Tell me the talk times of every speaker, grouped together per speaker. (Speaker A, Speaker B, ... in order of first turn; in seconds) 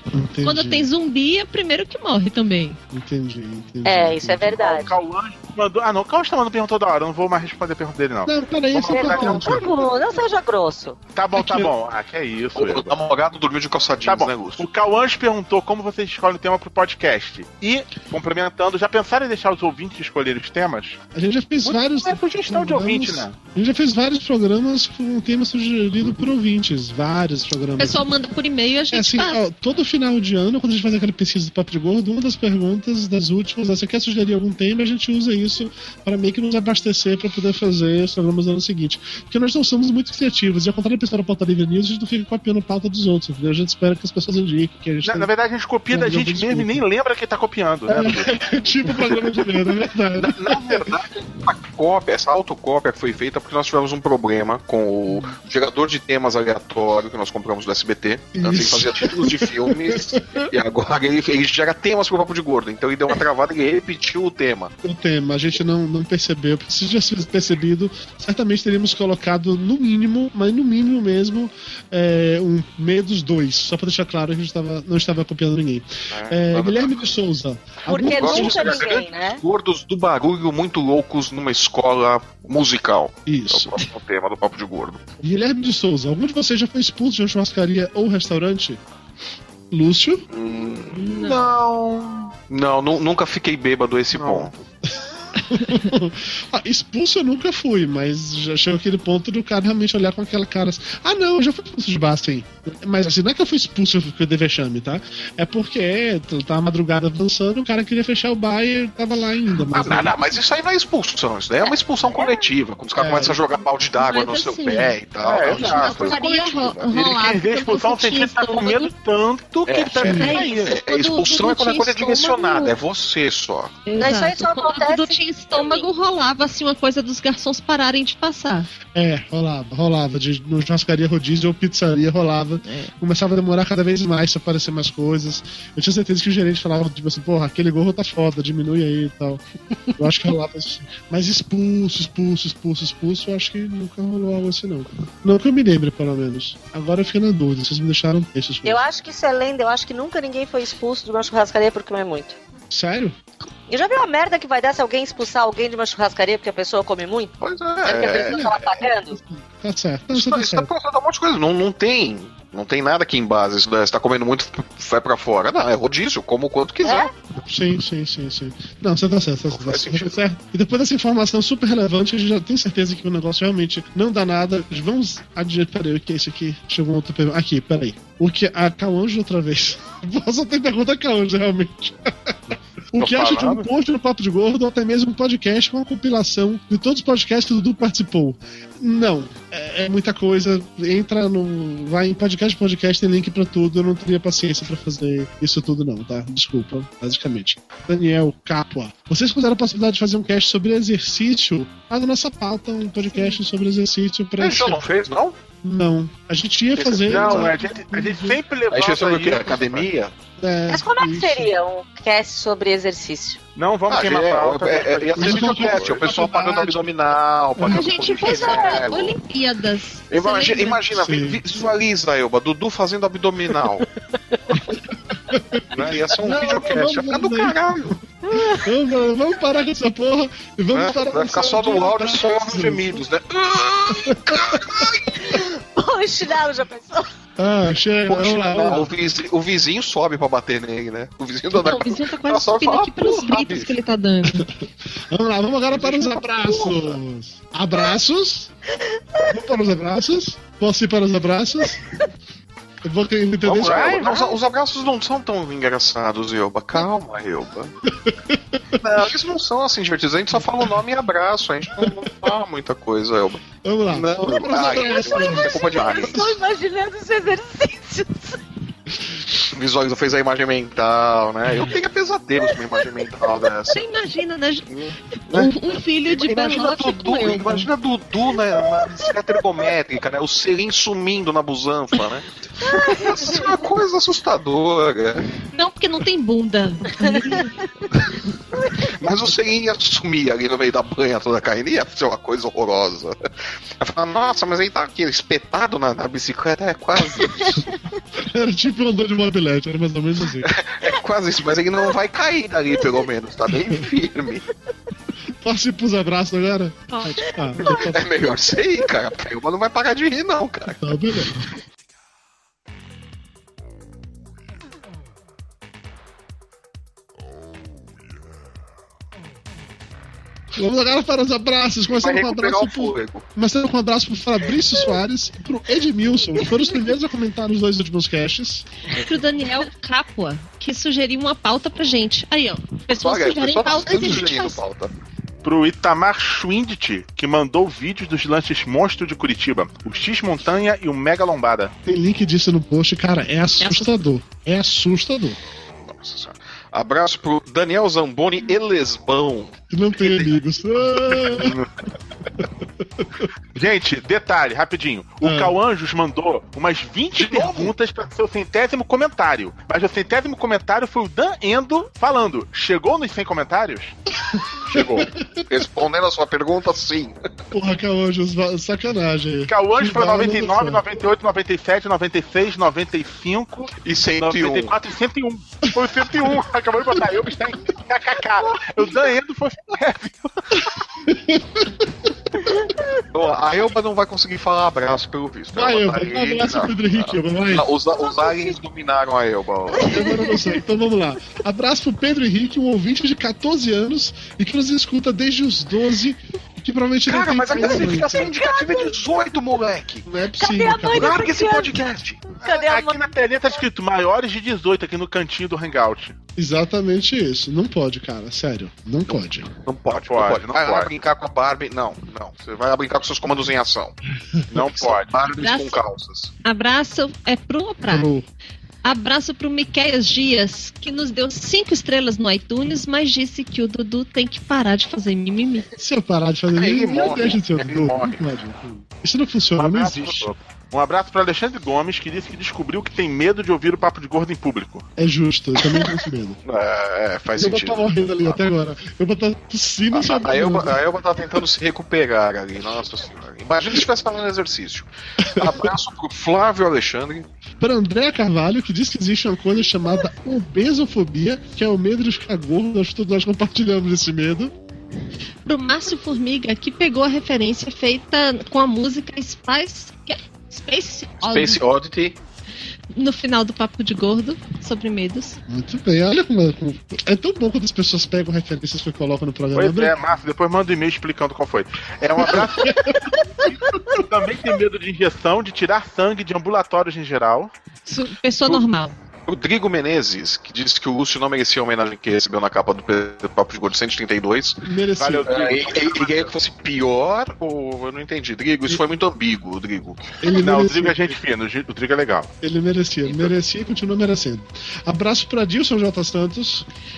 Speaker A: 0.1-0.9, 2.9-4.6, 8.2-9.8, 11.4-11.7, 21.1-28.0, 28.9-45.3, 45.9-46.8, 47.9-50.9, 55.1-55.3, 58.4-60.4, 64.8-78.8, 83.3-83.8, 85.2-88.8, 89.7-90.2, 94.1-94.5, 95.5-110.4, 113.0-113.4, 120.0-120.4, 128.9-139.4, 140.0-148.8, 152.7-153.2, 159.1-160.7, 167.4-204.8, 205.6-208.4, 210.4-211.5, 215.2-216.9, 217.6-218.1, 220.9-221.4, 225.3-233.0, 234.1-234.9, 237.4-238.9, 245.1-248.5, 249.3-251.8, 252.8-254.2, 258.1-258.8, 263.6-266.3, 298.2-300.5, 305.4-308.1, 310.8-311.5, 320.6-328.7, 341.9-345.4, 349.7-351.6, 355.2-355.6, 364.3-365.3, 367.5-370.8, 381.1-382.1, 385.5-387.7, 389.8-398.3, 400.1-401.2, 406.4-409.5, 417.8-418.2, 425.8-430.3, 435.0-436.4, 437.4-440.8, 445.2-445.7, 447.6-454.5, 465.5-469.9, 472.2-472.9, 484.6-485.3, 490.2-491.1, 492.4-496.7
Speaker B: 0.4-2.8, 27.8-29.4, 90.9-91.5, 113.9-118.9, 120.0-122.8, 123.8-128.7, 217.7-220.8, 241.5-244.5, 273.7-274.7, 275.3-277.7, 285.5-287.5, 306.9-307.3, 329.0-334.6, 343.6-344.0, 415.4-415.8, 416.4-418.1, 418.8-425.7, 455.4-461.6, 462.9-465.4, 477.9-478.9
Speaker C: 3.9-4.9, 8.8-11.0, 77.9-79.4, 124.0-125.9, 148.6-152.4, 153.7-159.2, 166.8-167.1, 210.7-213.4, 218.2-218.9, 235.2-237.1, 264.6-268.4, 282.6-283.5, 287.0-287.4, 398.2-398.9, 400.4-401.7, 402.4-403.0
Speaker D: 4.6-9.6, 11.2-12.9, 14.1-21.0, 21.6-23.4, 45.0-48.3, 115.2-116.2, 116.9-120.7, 183.0-183.7, 207.1-209.9, 213.6-216.1, 253.7-254.4, 335.4-341.7, 353.6-363.9, 369.5-380.4, 402.4-406.2, 409.9-410.9, 414.5-415.1, 429.6-434.9, 469.6-477.5, 485.0-486.3, 490.4-492.3
Speaker E: 12.6-14.7, 50.2-64.7, 76.1-77.1, 78.0-85.0, 90.3-94.5, 109.7-117.0, 119.7-123.8, 157.4-158.8, 160.1-167.1, 169.5-170.2, 204.4-205.4, 206.8-207.5, 208.7-210.1, 213.9-219.2, 220.1-223.9, 225.7-228.0, 230.7-235.4, 238.1-243.8, 245.7-247.0, 253.4-257.7, 258.8-266.3, 269.4-273.8, 274.7-285.3, 288.7-293.1, 293.8-297.7, 300.4-304.5, 307.7-311.0, 321.9-323.3, 333.0-334.9, 345.8-349.6, 357.2-357.7, 364.7-367.2, 373.8-374.7, 383.1-390.3, 397.1-400.1, 400.9-402.3, 409.7-414.0, 414.5-416.3, 426.5-428.2, 436.4-438.4, 439.9-447.3, 461.2-462.2, 479.3-484.6, 485.2-490.0